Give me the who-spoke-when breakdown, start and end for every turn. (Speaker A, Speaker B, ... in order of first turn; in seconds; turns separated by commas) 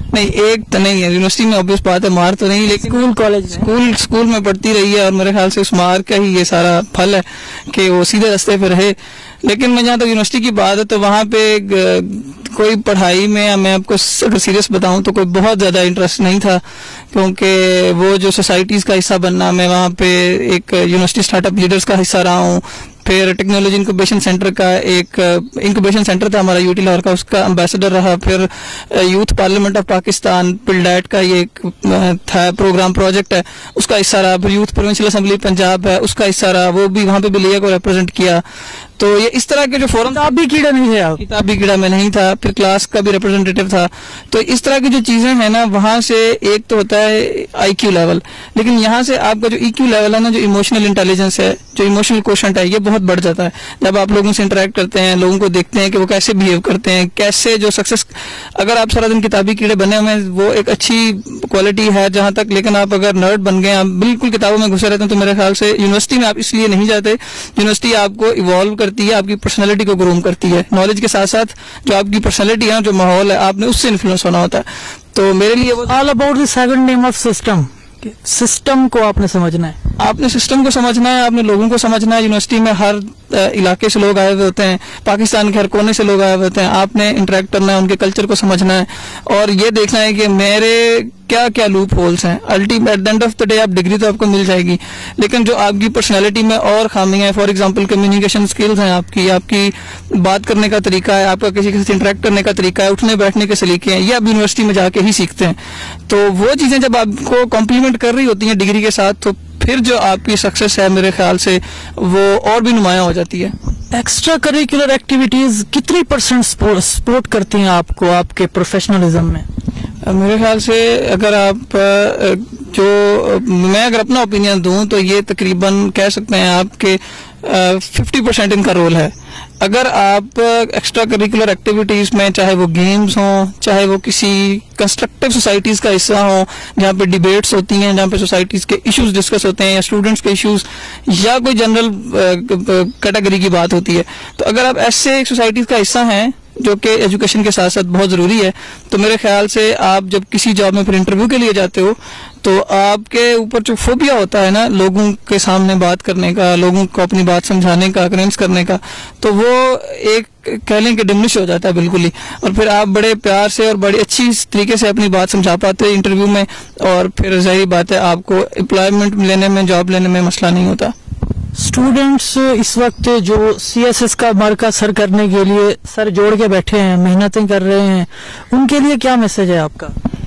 Speaker A: 0.1-3.0, Speaker B: 2.8-3.7, Speaker A: 3.6-38.4, Speaker A: 39.0-40.2, Speaker B: 40.1-41.2, Speaker A: 41.2-75.9, Speaker B: 75.9-79.8, Speaker A: 80.0-105.6, Speaker A: 106.1-113.5, Speaker B: 113.9-119.5, Speaker A: 120.0-170.9, Speaker B: 171.6-179.9